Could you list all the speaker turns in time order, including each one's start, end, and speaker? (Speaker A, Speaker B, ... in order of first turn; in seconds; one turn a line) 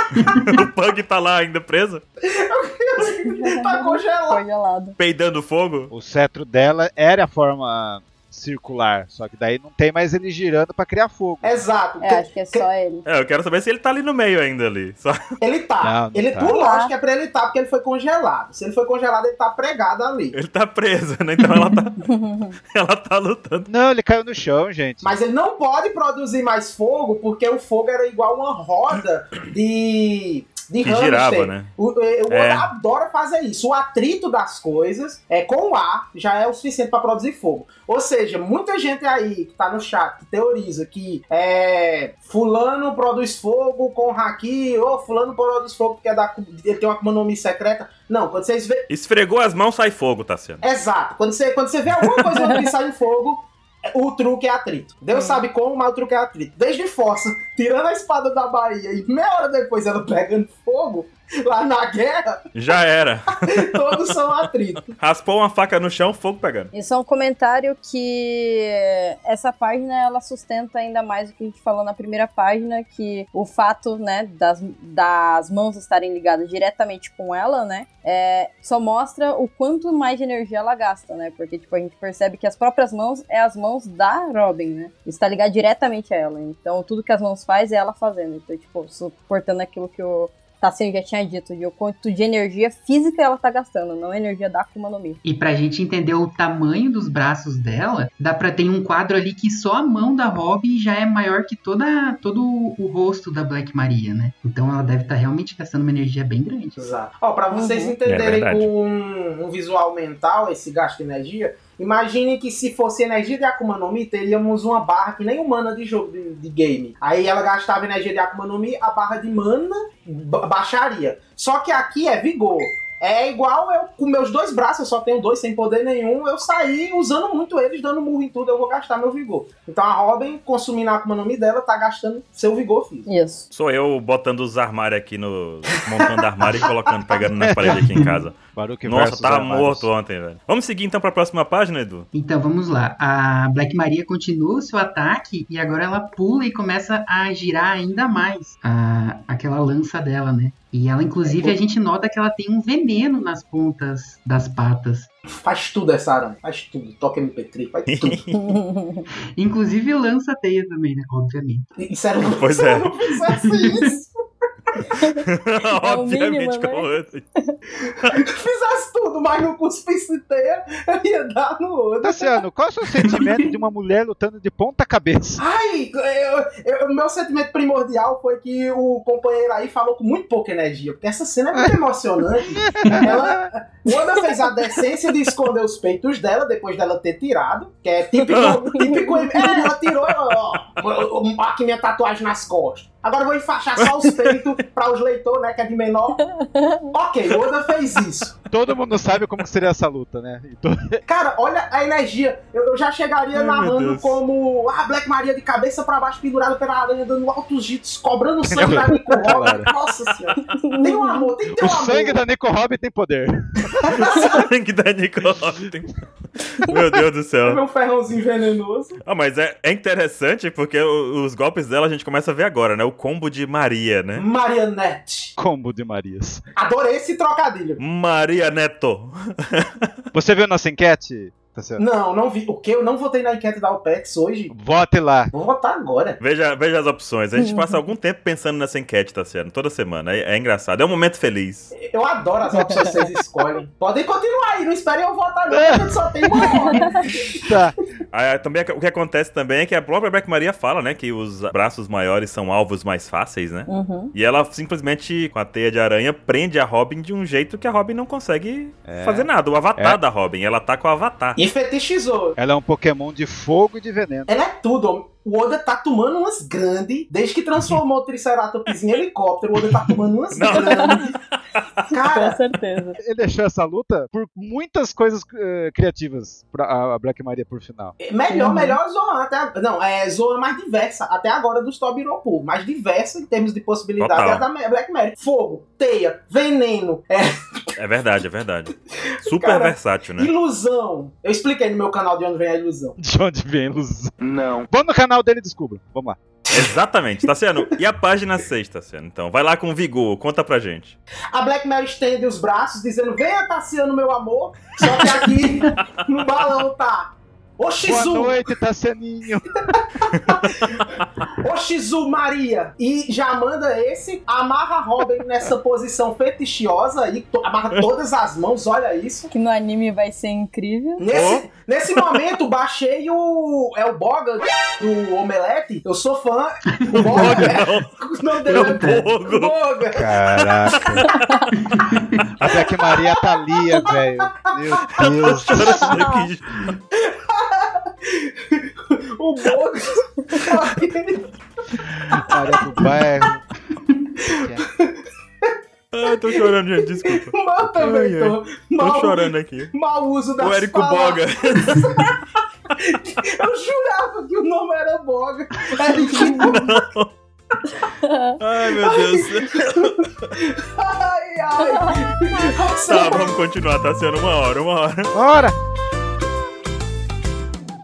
Speaker A: 0.1-2.0
Speaker B: 2.3-4.4
Speaker C: 3.0-5.0
Speaker A: 5.0-5.9
Speaker D: 5.9-11.6
Speaker B: 11.4-12.7
Speaker C: 12.0-13.1
Speaker A: 13.1-15.2
Speaker B: 15.4-20.4
Speaker D: 15.8-16.6
Speaker C: 16.5-16.9
Speaker A: 20.3-22.0
Speaker C: 22.0-22.6
Speaker A: 22.7-23.7
Speaker D: 23.7-25.2
Speaker B: 25.0-48.9
Speaker A: 30.8-31.7
Speaker A: 32.3-32.7
Speaker A: 48.9-50.6
Speaker B: 50.6-62.4
Speaker C: 55.1-55.4
Speaker A: 62.5-64.2
Speaker B: 63.5-64.9
Speaker A: 64.9-66.7
Speaker C: 66.7-95.2
Speaker E: 95.2-106.8
Speaker B: 106.8-133.1
Speaker C: 107.5-108.0
Speaker A: 108.1-108.7
Speaker C: 133.1-133.5
Speaker A: 133.5-142.1
Speaker D: 137.4-138.0
Speaker E: 137.8-138.2
Speaker D: 138.5-139.9
Speaker E: 142.1-155.1
Speaker B: 151.2-151.6
Speaker B: 155.4-158.2
Speaker A: 157.9-158.6
Speaker C: 158.3-159.1
Speaker E: 159.4-161.7
Speaker B: 161.8-164.1
Speaker A: 162.2-162.9
Speaker E: 163.3-163.9
Speaker C: 164.9-167.6
Speaker A: 165.0-167.2
Speaker B: 168.1-172.3
Speaker D: 172.0-175.4
Speaker E: 173.1-173.4
Speaker B: 175.4-196.2
Speaker D: 182.4-183.5
Speaker A: 188.3-188.8
Speaker C: 188.3-189.7
Speaker A: 193.8-194.4
Speaker C: 196.2-196.9
Speaker B: 196.9-198.4
Speaker D: 198.5-201.0
Speaker B: 201.1-212.2
Speaker A: 203.3-204.2
Speaker A: 208.5-208.8
Speaker D: 208.6-209.7
Speaker C: 210.5-211.3
Speaker D: 211.6-214.2
Speaker B: 213.8-214.4
Speaker A: 213.9-217.6
Speaker B: 217.4-219.0
Speaker A: 219.1-224.2
Speaker B: 224.2-225.3
Speaker D: 225.4-226.4
Speaker B: 226.6-227.8
Speaker A: 227.8-229.9
Speaker D: 230.1-231.8
Speaker B: 231.8-234.5
Speaker D: 234.5-235.3
Speaker B: 235.3-236.2
Speaker A: 236.2-241.7
Speaker C: 237.4-237.8
Speaker B: 241.7-247.5
Speaker C: 242.5-243.1
Speaker D: 245.5-247.8
Speaker C: 246.4-247.0
Speaker A: 248.1-261.4
Speaker C: 253.7-254.1
Speaker D: 258.9-260.0
Speaker B: 261.4-262.4
Speaker D: 262.4-264.3
Speaker B: 264.3-271.1
Speaker A: 270.3-271.6
Speaker C: 270.5-271.0
Speaker B: 271.9-272.4
Speaker C: 271.9-273.0
Speaker D: 273.0-277.9
Speaker B: 278.0-287.7
Speaker C: 278.3-278.8
Speaker A: 284.0-284.4
Speaker A: 287.8-290.3
Speaker B: 289.2-293.0
Speaker D: 293.0-296.2
Speaker B: 296.5-296.8
Speaker A: 296.5-301.0
Speaker B: 301.3-308.4
Speaker D: 307.8-309.8
Speaker B: 309.8-319.3
Speaker C: 319.3-321.1
Speaker B: 321.0-330.1
Speaker A: 321.1-322.2
Speaker E: 326.8-327.5
Speaker A: 326.9-329.6
Speaker E: 328.5-329.1
Speaker D: 329.9-331.1
Speaker A: 330.7-331.5
Speaker E: 331.6-332.3
Speaker D: 332.4-336.0
Speaker B: 332.6-333.1
Speaker A: 335.0-336.8
Speaker C: 335.8-336.2
Speaker B: 337.0-341.2
Speaker D: 341.9-343.4
Speaker B: 344.2-345.5
Speaker D: 344.3-344.6
Speaker A: 345.9-349.7
Speaker B: 347.1-356.7
Speaker A: 350.4-351.9
Speaker A: 356.1-357.1
Speaker C: 356.1-356.4
Speaker C: 358.0-358.4
Speaker A: 358.4-360.3
Speaker B: 358.8-363.4
Speaker C: 361.6-362.0
Speaker A: 362.9-365.1
Speaker D: 365.1-365.6